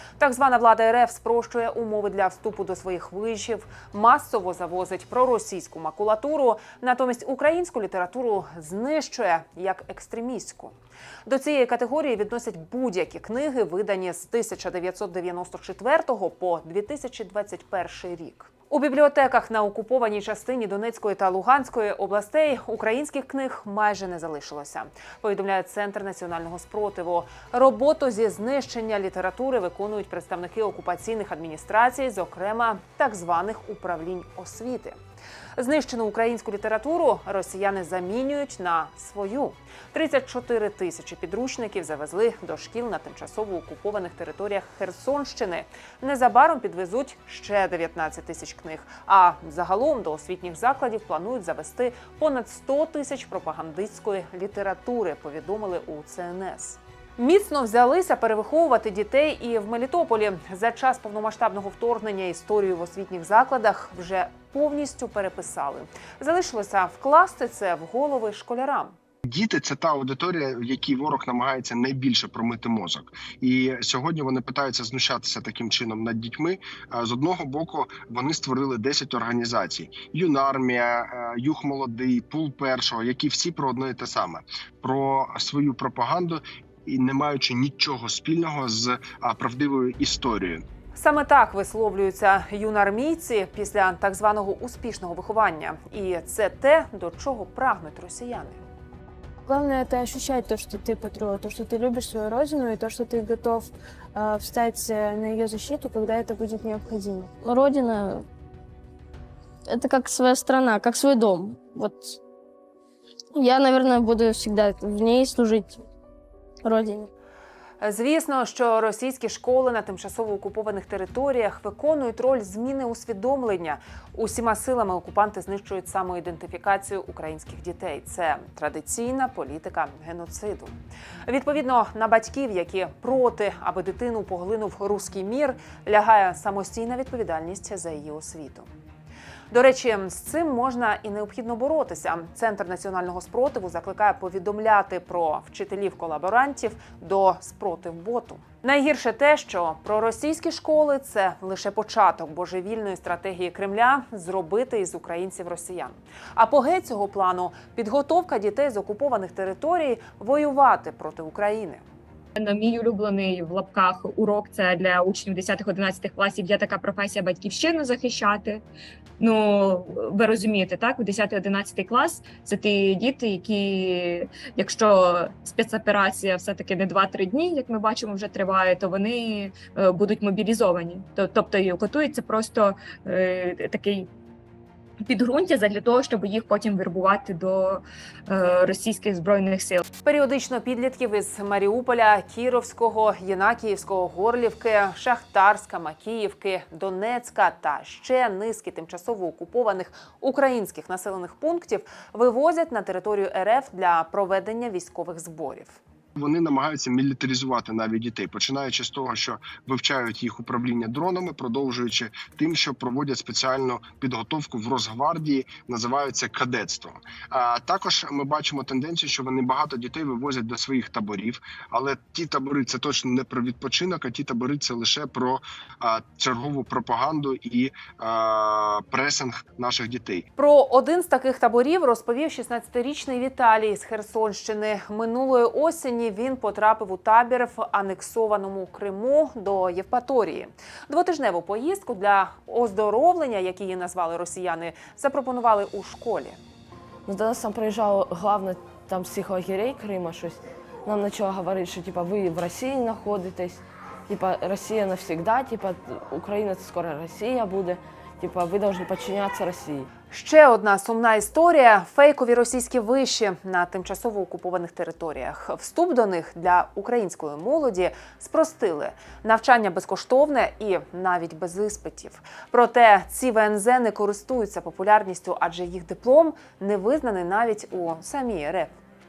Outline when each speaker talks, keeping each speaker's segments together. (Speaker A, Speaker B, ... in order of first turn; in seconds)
Speaker A: 0.2-10.7, 11.3-35.0, 35.6-69.0, 90.9-98.6, 117.8-138.7, 139.5-161.8, 190.0-205.8, 230.4-246.4, 260.1-278.7
Speaker B: 69.3-90.6, 206.2-230.3
Speaker C: 99.5-107.4
Speaker D: 107.4-108.2, 109.7-112.2, 113.3-115.8, 116.6-117.1
Speaker E: 162.4-168.6, 169.2-184.1, 185.0-189.8
Speaker F: 247.1-259.9